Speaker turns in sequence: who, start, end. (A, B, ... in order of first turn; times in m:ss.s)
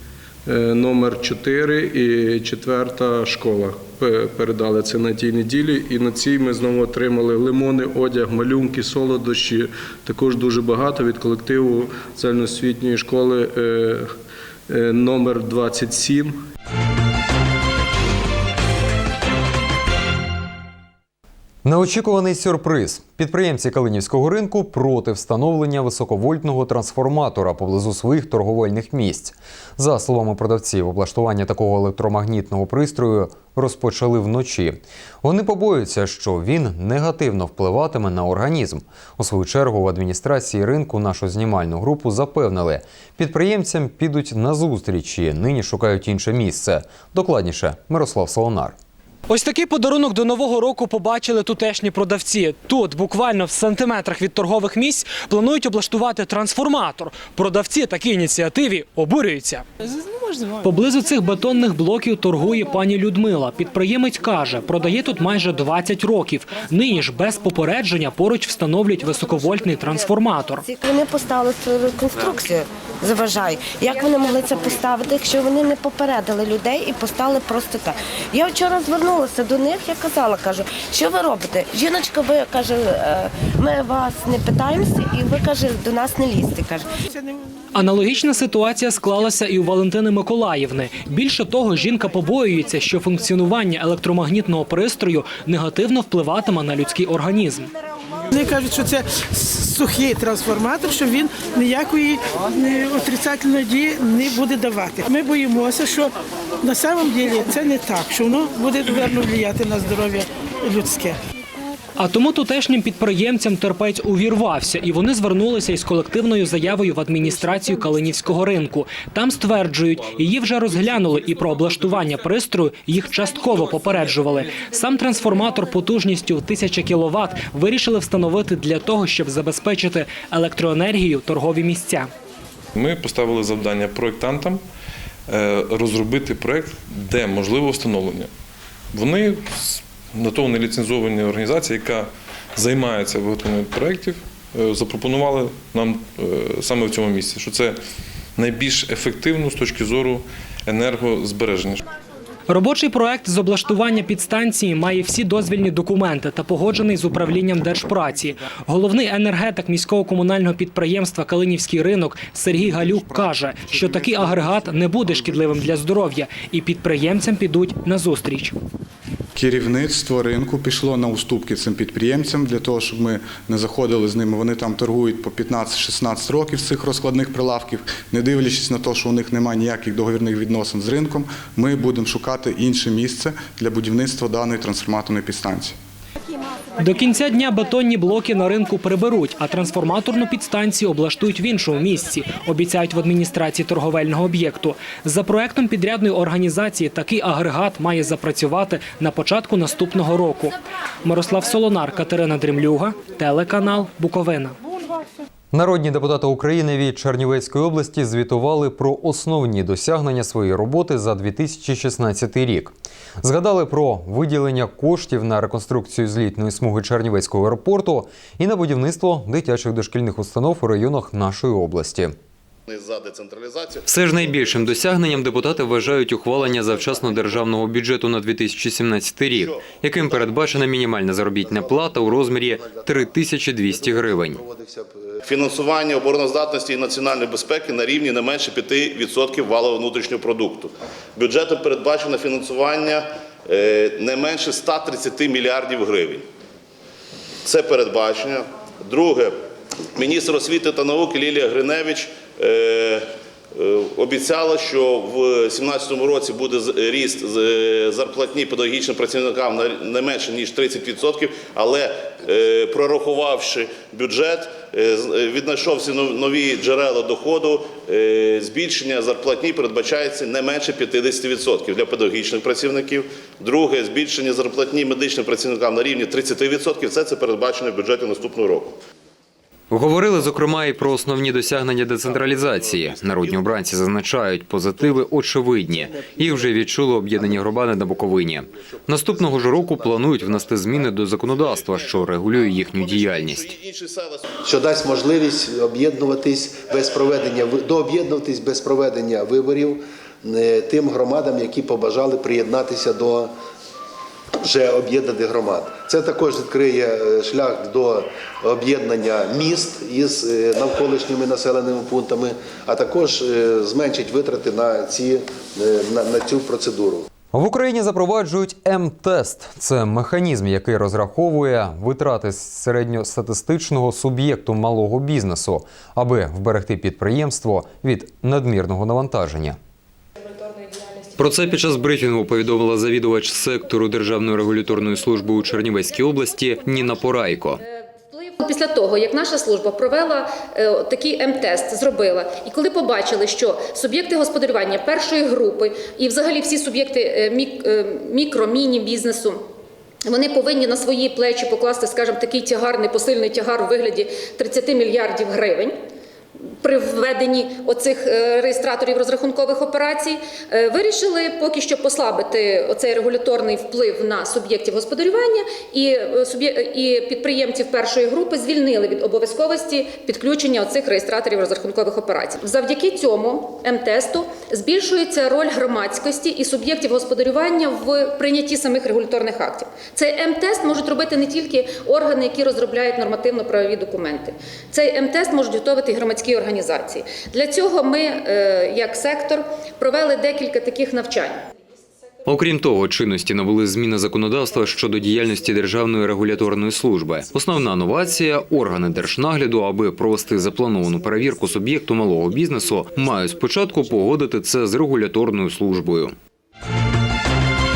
0:00.5-0:14.0 A
0:14.7-0:16.4 A
0:21.6-0:48.8 B
0:49.3-0:59.6 C
1:00.6-1:10.6 C
1:10.6-1:26.8 D
1:27.7-1:37.7 C
1:38.3-1:46.1 E
1:46.6-1:51.1 E
1:52.0-2:12.1 C
2:12.7-2:14.6 F
2:15.3-2:18.3 F
2:18.9-2:27.8 F
2:28.4-2:31.8 F
2:32.5-2:48.6 C
2:49.4-3:05.7 G
3:06.8-3:24.6 C
3:25.5-3:42.1 B
3:42.7-3:45.5 H
3:43.8-3:54.4 B
3:49.3-3:50.5 H
3:51.4-3:55.2 I
3:55.2-4:06.2 H
4:07.4-4:09.3 H
4:10.0-4:13.0 H
4:13.6-4:38.8 H
4:39.7-4:53.5 B
4:42.2-4:43.6 H
4:45.8-4:46.6 I
4:47.2-4:47.8 I
4:48.9-4:50.1 I
4:50.8-4:54.4 H
4:54.4-5:03.3 I
5:04.4-5:17.1 I
5:17.3-5:29.6 B
5:31.2-5:37.6 B
5:38.1-5:49.4 J
5:50.0-5:55.8 J
5:56.6-6:31.4 J
6:32.2-6:46.1 B